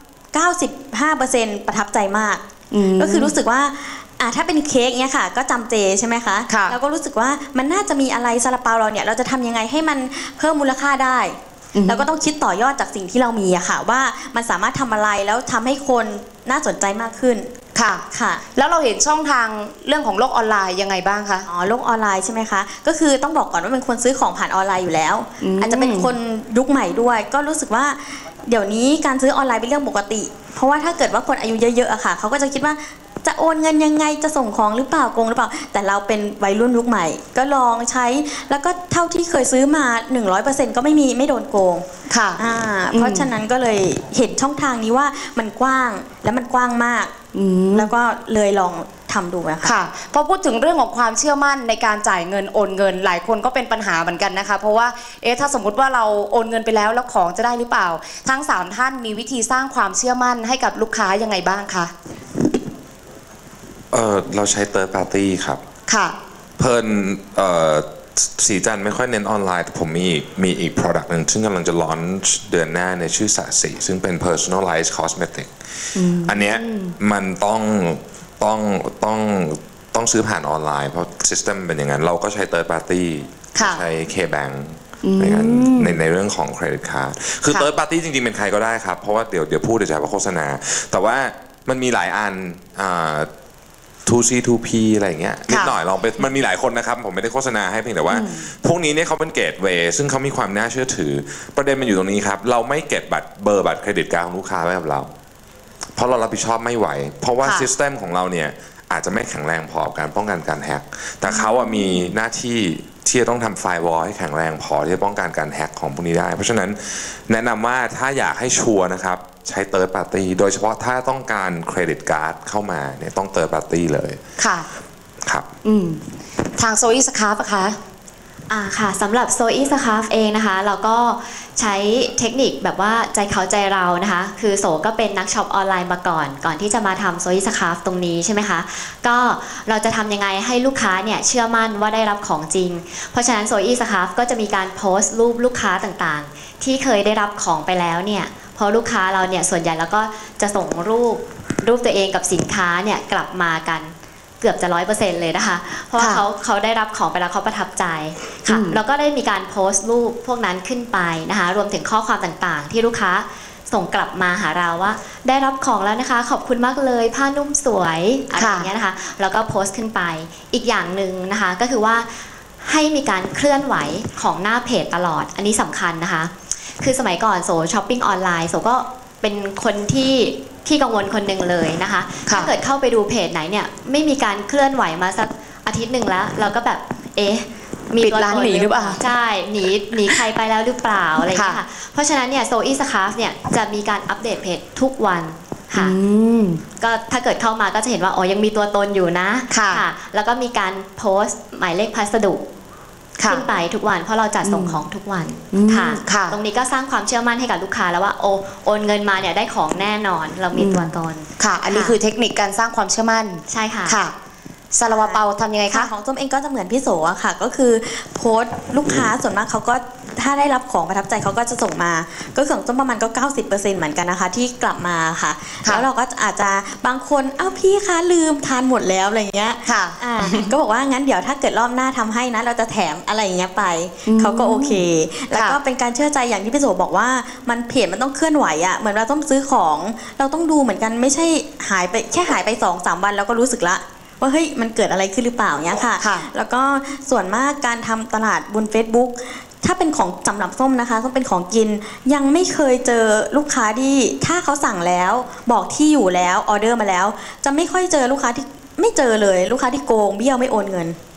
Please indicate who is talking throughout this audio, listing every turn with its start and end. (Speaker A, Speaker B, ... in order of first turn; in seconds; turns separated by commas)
Speaker A: 0.3-2.4, Speaker B: 2.7-3.4, Speaker A: 3.0-17.5, Speaker B: 6.5-6.8, Speaker B: 11.8-12.1, Speaker B: 17.8-18.0, Speaker A: 18.1-18.4, Speaker B: 18.6-21.5, Speaker A: 21.5-47.1, Speaker B: 25.4-26.1, Speaker B: 42.1-42.4, Speaker B: 42.9-43.3, Speaker B: 47.3-47.9, Speaker A: 47.7-49.8, Speaker B: 49.6-61.9, Speaker C: 63.9-65.6, Speaker B: 65.9-66.2, Speaker C: 66.6-93.3, Speaker B: 76.0-77.0, Speaker B: 83.6-83.8, Speaker B: 85.0-86.0, Speaker C: 94.0-105.1, Speaker B: 95.5-95.8, Speaker B: 98.1-98.5, Speaker C: 106.0-124.2, Speaker B: 107.4-107.7, Speaker B: 111.3-112.1, Speaker B: 124.4-124.7, Speaker B: 125.7-126.0, Speaker B: 126.6-127.8, Speaker D: 128.5-196.0, Speaker B: 158.5-158.8, Speaker B: 168.4-168.7, Speaker B: 182.3-182.5, Speaker B: 188.0-189.0, Speaker B: 191.3-191.6, Speaker B: 195.8-196.6, Speaker D: 196.8-202.4, Speaker B: 199.5-199.8, Speaker B: 203.2-203.4, Speaker D: 203.3-212.0, Speaker B: 204.4-204.8, Speaker B: 205.5-206.3, Speaker B: 210.6-214.1, Speaker D: 213.5-214.0, Speaker B: 214.7-215.9, Speaker D: 214.9-215.2, Speaker A: 215.7-261.0, Speaker B: 229.7-230.5, Speaker B: 234.1-235.6, Speaker B: 246.0-246.3